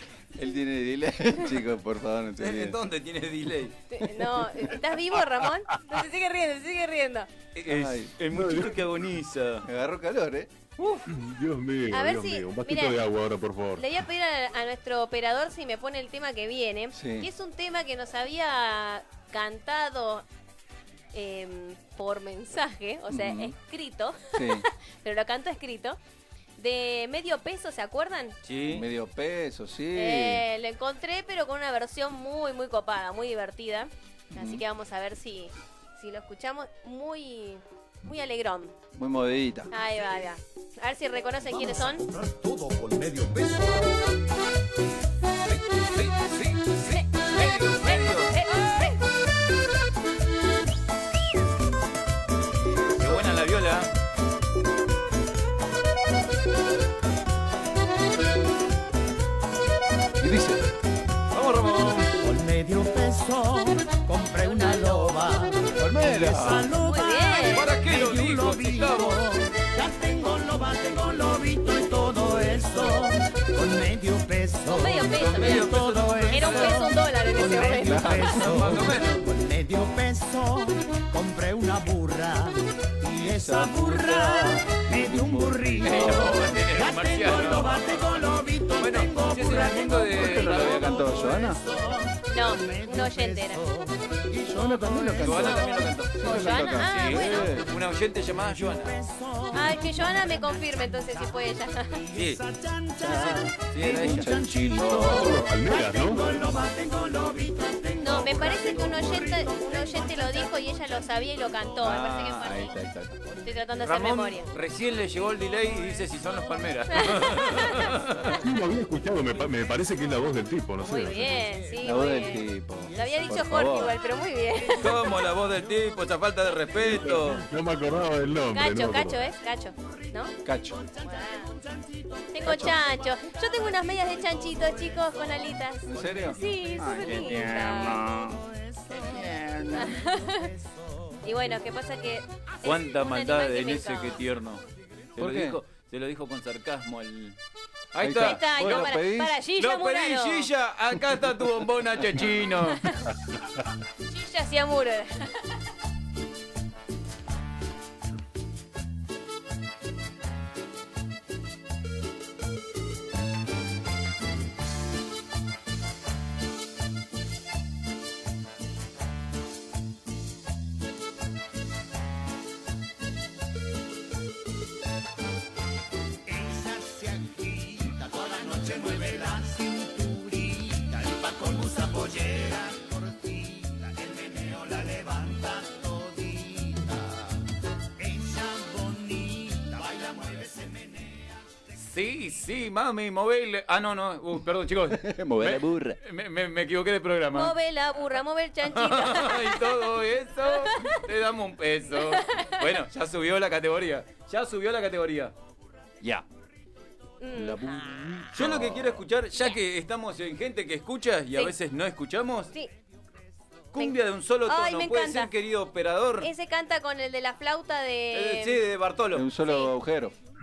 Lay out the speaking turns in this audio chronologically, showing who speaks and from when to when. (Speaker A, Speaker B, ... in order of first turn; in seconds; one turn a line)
Speaker A: 0.3-2.8
Speaker B: 2.4-3.8
Speaker C: 3.9-7.3
Speaker B: 7.5-9.7
Speaker A: 7.7-8.1
Speaker D: 8.3-8.8
Speaker A: 9.6-10.5
Speaker D: 11.1-13.9
Speaker C: 11.9-13.0
Speaker C: 13.8-20.2
Speaker A: 16.9-17.3
Speaker C: 21.1-26.0
Speaker A: 23.1-23.6
Speaker A: 24.4-24.7
Speaker C: 26.6-28.4
Speaker B: 28.4-28.9
Speaker A: 28.7-30.4
Speaker C: 29.9-38.7
Speaker A: 34.3-34.6
Speaker A: 38.9-39.7
Speaker C: 39.7-42.1
Speaker B: 45.5-48.4
Speaker C: 47.6-48.9
Speaker B: 53.0-53.9
Speaker A: 60.2-60.6
Speaker B: 61.3-62.1
Speaker E: 62.2-95.9
Speaker A: 65.8-66.7
Speaker C: 66.9-67.7
Speaker B: 67.5-69.2
Speaker C: 74.7-75.7
Speaker B: 75.2-76.9
Speaker C: 76.2-78.2
Speaker A: 77.6-78.7
Speaker B: 78.2-79.3
Speaker A: 83.2-86.6
Speaker B: 85.8-91.0
Speaker A: 90.1-91.6
Speaker C: 92.3-93.6
Speaker A: 94.5-97.7
Speaker B: 95.2-99.0
Speaker C: 96.2-97.5
Speaker E: 98.3-101.2
Speaker C: 99.5-102.0
Speaker E: 101.9-110.5
Speaker B: 102.1-102.4
Speaker A: 103.0-105.6
Speaker B: 103.7-105.1
Speaker D: 105.0-106.3
Speaker C: 108.0-112.8
Speaker A: 111.8-113.2
Speaker C: 113.4-114.5
Speaker B: 113.8-118.4
Speaker C: 116.9-118.3
Speaker D: 118.4-121.5
Speaker C: 120.8-125.0
Speaker A: 121.8-124.0
Speaker B: 124.7-127.5
Speaker D: 126.8-129.3
Speaker C: 128.5-130.3
Speaker A: 130.4-130.8
Speaker E: 130.8-133.3
Speaker C: 131.0-131.5
Speaker C: 132.3-138.1
Speaker A: 132.4-132.8
Speaker A: 135.8-140.1
Speaker E: 135.9-140.7
Speaker C: 139.7-140.5
Speaker C: 141.2-144.2
Speaker B: 142.6-144.6
Speaker B: 145.2-147.4
Speaker A: 145.2-145.6
Speaker B: 147.9-149.0
Speaker A: 148.0-149.4
Speaker C: 148.2-150.5
Speaker B: 149.6-152.8
Speaker C: 154.1-155.4
Speaker E: 176.3-187.1
Speaker E: 188.0-190.9
Speaker B: 191.8-197.6
Speaker A: 194.9-196.0
Speaker C: 197.3-199.8
Speaker B: 198.6-205.3
Speaker C: 200.5-201.0
Speaker C: 202.0-202.6
Speaker C: 207.2-208.1
Speaker A: 207.3-209.0
Speaker B: 208.3-212.5
Speaker B: 213.7-216.3
Speaker C: 213.8-215.3
Speaker C: 216.2-218.6
Speaker B: 218.1-219.3
Speaker A: 219.1-220.2
Speaker C: 219.4-219.7